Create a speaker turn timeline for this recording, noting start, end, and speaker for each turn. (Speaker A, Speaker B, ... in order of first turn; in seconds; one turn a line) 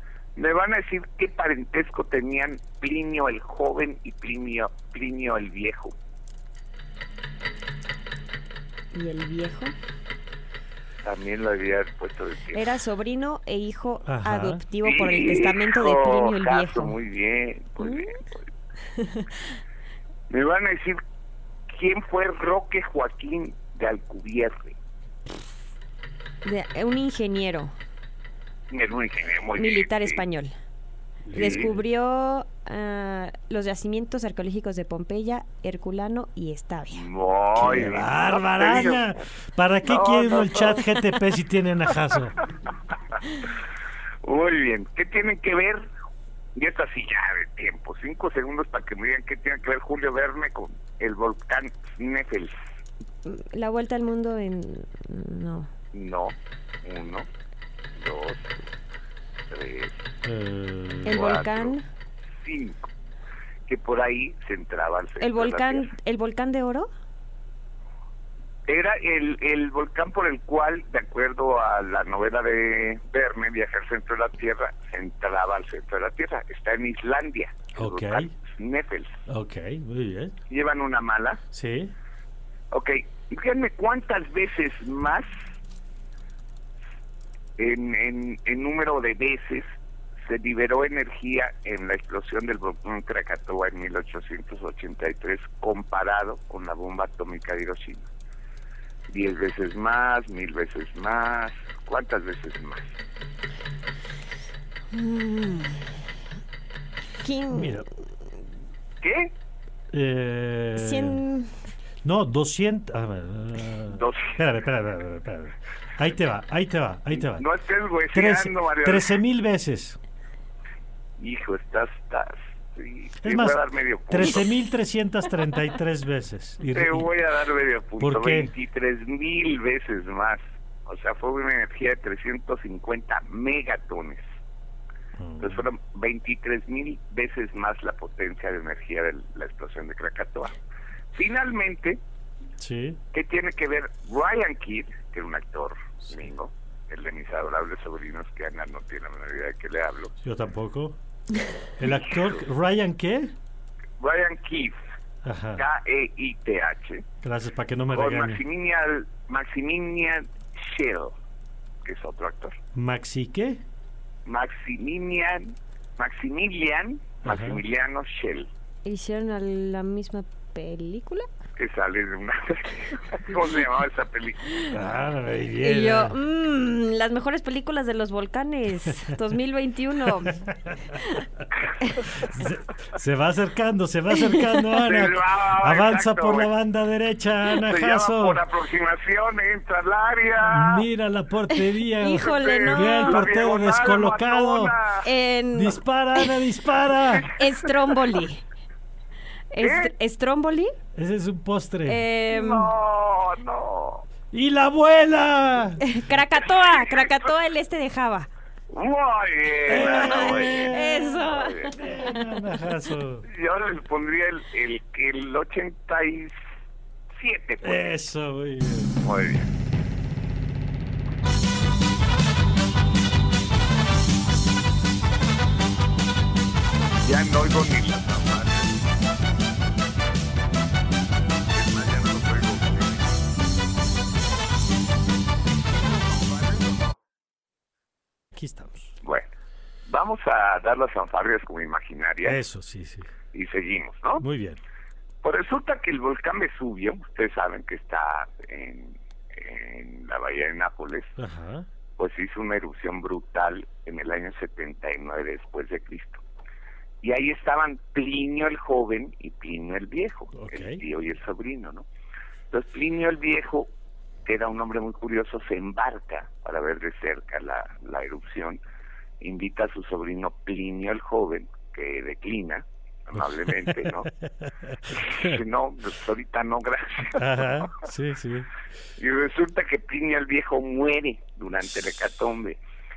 Speaker A: 0.4-6.0
Speaker B: 8.9-9.7
Speaker A: 11.0-12.7
Speaker B: 12.5-17.0
Speaker C: 14.1-14.6
Speaker A: 14.8-18.5
Speaker B: 17.8-18.2
Speaker B: 19.0-19.2
Speaker A: 20.3-21.0
Speaker A: 21.7-24.8
Speaker B: 26.4-27.7
Speaker A: 28.7-30.2
Speaker B: 29.6-30.5
Speaker C: 31.3-31.8
Speaker A: 31.3-31.7
Speaker B: 31.3-37.0
Speaker A: 36.9-39.2
Speaker C: 37.6-42.4
Speaker A: 39.8-40.9
Speaker A: 44.2-45.9
Speaker A: 46.5-52.6
Speaker B: 53.2-55.7
Speaker A: 55.9-57.3
Speaker A: 58.0-58.6
Speaker A: 59.5-60.0
Speaker C: 60.2-61.3
Speaker B: 61.0-61.9
Speaker A: 61.1-61.8
Speaker A: 62.4-62.9
Speaker A: 63.7-65.9
Speaker B: 65.2-66.9
Speaker A: 68.7-79.2
Speaker C: 77.8-78.3
Speaker C: 79.3-80.4
Speaker A: 80.5-81.4
Speaker C: 81.5-82.0
Speaker A: 82.7-85.3
Speaker A: 87.6-89.7
Speaker A: 90.2-98.1
Speaker A: 99.1-102.9
Speaker B: 104.9-106.0
Speaker B: 107.2-107.9
Speaker C: 107.5-107.9
Speaker A: 109.0-109.3
Speaker C: 109.9-111.2
Speaker B: 110.8-111.5
Speaker C: 112.0-117.5
Speaker A: 113.9-114.4
Speaker A: 117.2-119.2
Speaker C: 118.1-120.0
Speaker A: 121.2-124.4
Speaker C: 123.2-127.1
Speaker A: 126.7-134.3
Speaker C: 128.0-128.5
Speaker C: 135.2-135.7
Speaker A: 135.4-140.6
Speaker A: 141.1-142.0
Speaker C: 142.6-143.0
Speaker A: 143.1-150.1
Speaker C: 150.2-151.0
Speaker C: 151.8-153.3
Speaker A: 151.8-152.3
Speaker A: 154.0-154.8
Speaker C: 155.2-155.6
Speaker A: 155.6-157.1
Speaker C: 157.2-158.4
Speaker A: 157.9-161.2
Speaker A: 161.8-162.6
Speaker C: 162.8-163.6
Speaker A: 164.2-168.5
Speaker C: 167.2-167.6
Speaker B: 168.8-171.3
Speaker A: 171.6-174.5
Speaker C: 174.7-176.2
Speaker B: 175.6-181.2
Speaker C: 182.2-188.4
Speaker A: 184.8-186.5
Speaker A: 187.5-190.9
Speaker C: 190.4-194.8
Speaker B: 191.9-193.2
Speaker A: 192.1-195.1
Speaker B: 195.0-196.3
Speaker C: 195.5-197.3
Speaker B: 197.3-198.4
Speaker B: 199.5-200.8
Speaker A: 199.6-199.9
Speaker C: 201.0-202.0
Speaker B: 201.9-202.7
Speaker A: 202.3-204.1
Speaker C: 204.3-205.9
Speaker B: 205.8-208.3
Speaker A: 206.6-207.1
Speaker A: 208.7-211.9
Speaker C: 209.7-211.0
Speaker B: 209.7-211.6
Speaker C: 211.7-213.3
Speaker A: 213.2-216.3
Speaker A: 217.2-217.9
Speaker C: 217.6-218.9
Speaker A: 219.0-219.5
Speaker A: 227.0-228.8
Speaker A: 231.5-233.1
Speaker A: 235.7-236.9
Speaker C: 238.3-238.9
Speaker A: 239.0-239.3
Speaker A: 239.9-242.4
Speaker C: 242.2-243.1
Speaker A: 243.3-244.2
Speaker C: 244.2-244.6
Speaker A: 245.2-251.2
Speaker C: 251.2-251.7
Speaker A: 252.0-256.2
Speaker A: 257.0-261.9
Speaker C: 260.4-260.8
Speaker A: 262.5-263.7
Speaker A: 264.2-268.6
Speaker A: 269.2-274.1
Speaker C: 274.4-274.7
Speaker A: 274.9-277.9
Speaker C: 277.2-278.5
Speaker A: 279.0-282.6